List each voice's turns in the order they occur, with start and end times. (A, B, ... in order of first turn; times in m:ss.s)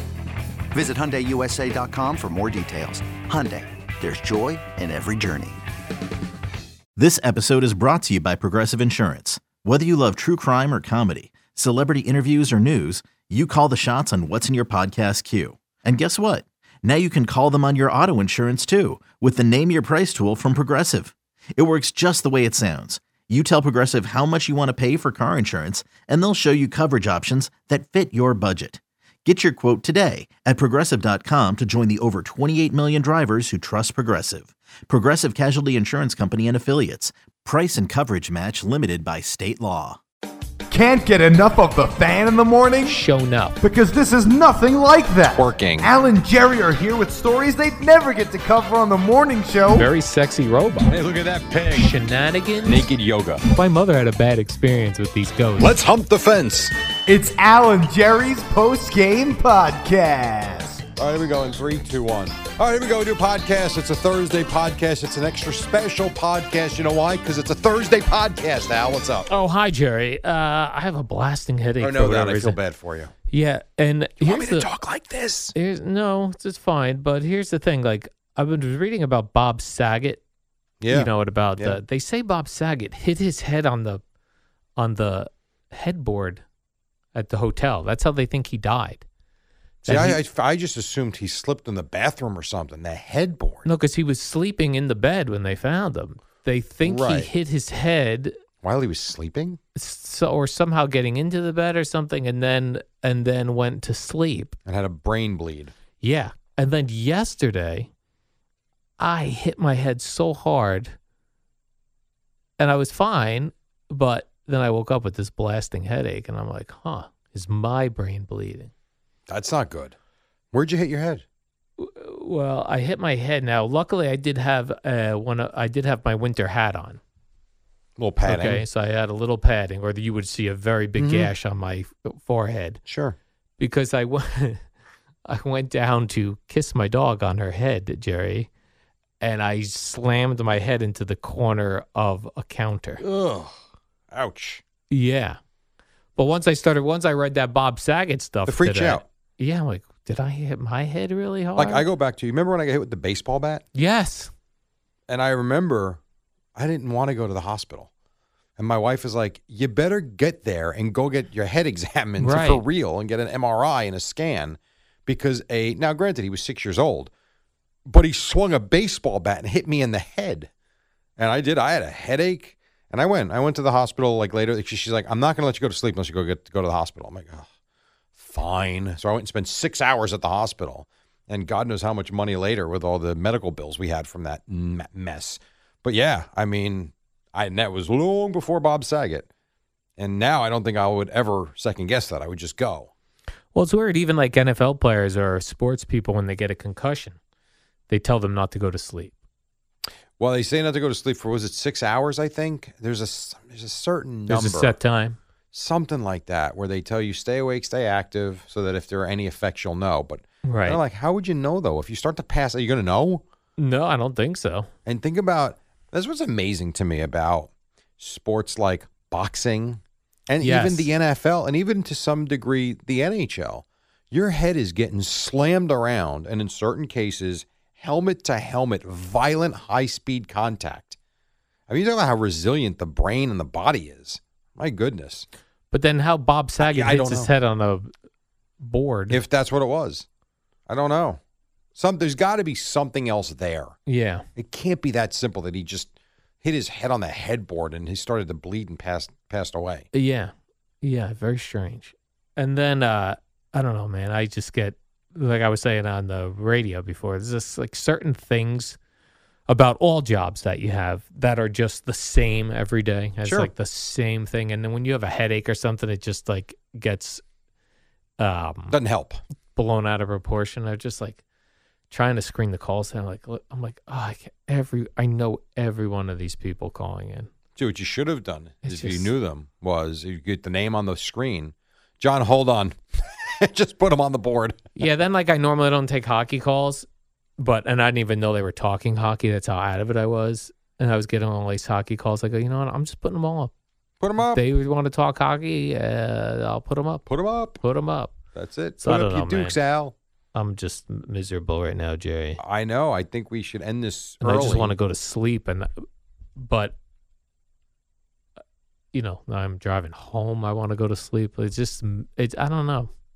0:00.7-0:05.6 A
0:07.0-0:40.0 B
0:40.7-0:43.0 C
0:42.8-0:43.6 D
0:43.6-0:49.9 C
0:45.3-0:45.9 E
0:49.7-0:51.0 D
0:50.9-0:51.9 E
0:51.7-0:52.8 D
0:52.6-0:53.4 E
0:53.5-0:55.8 D
0:55.6-0:56.7 E
0:57.1-1:00.8 C
1:01.0-1:09.3 E
1:09.3-1:12.6 D
1:11.8-1:13.1 E
1:13.3-1:14.7 D
1:14.2-1:15.5 E
1:15.6-1:20.2 D
1:20.8-1:21.8 E
1:20.9-1:24.0 D
1:24.8-1:26.4 D
1:27.1-1:29.0 D
1:29.8-1:30.2 D
1:29.9-1:33.7 E
1:33.7-1:38.4 D
1:36.8-1:37.3 E
1:38.6-1:39.6 E
1:39.8-1:44.6 D
1:44.7-1:45.7 E
1:46.0-1:47.9 D
1:49.0-1:51.0 D
1:52.6-1:58.7 D
1:59.3-2:00.0 E
2:00.5-2:01.2 E
2:01.8-2:07.0 D
2:08.0-2:08.6 E
2:08.2-2:12.8 D
2:11.0-2:11.3 E
2:12.9-2:13.2 E
2:13.6-2:14.6 D
2:15.3-2:18.5 D
2:19.2-2:23.0 D
2:23.0-2:23.6 E
2:24.1-2:24.6 E
2:24.9-2:25.4 D
2:26.2-2:31.8 D
2:28.5-2:29.0 E
2:31.6-2:33.6 E
2:33.8-2:34.3 D
2:35.1-2:36.0 E
2:36.6-2:37.9 E
2:38.6-2:47.1 E
2:42.2-2:42.6 D
2:47.9-2:50.5 E
2:51.2-2:57.5 E
2:58.2-3:09.3 E
3:10.0-3:12.9 E
3:13.5-3:17.2 D
3:17.9-3:19.2 D
3:20.2-3:24.8 E
3:24.3-3:25.2 D
3:25.5-3:33.2 E
3:30.4-3:30.8 D
3:33.6-3:34.7 D
3:34.9-3:51.0 E
3:40.4-3:40.9 D
3:51.7-3:55.3 E
3:55.7-3:57.9 D
3:56.6-3:57.3 E
3:58.6-3:59.2 D
3:59.1-4:00.1 E
4:00.7-4:01.2 E
4:01.8-4:03.8 E
4:03.9-4:04.2 D
4:04.4-4:09.9 E
4:09.9-4:18.8 D
4:19.5-4:27.2 D
4:23.2-4:23.5 E
4:28.2-4:28.8 D
4:28.7-4:29.2 E
4:29.6-4:31.2 D
4:31.9-4:37.3 D
4:37.6-4:44.7 E
4:38.6-4:39.1 D
4:44.8-4:46.9 D
4:47.4-4:53.5 D
4:54.0-4:54.4 E
4:54.2-4:57.1 D
4:57.1-4:57.6 E
4:57.6-4:58.1 D
4:58.4-5:00.0 E
4:58.8-4:59.6 D
5:00.3-5:02.4 D
5:02.4-5:04.8 E
5:04.2-5:05.8 D
5:06.4-5:06.8 D
5:08.9-5:12.9 D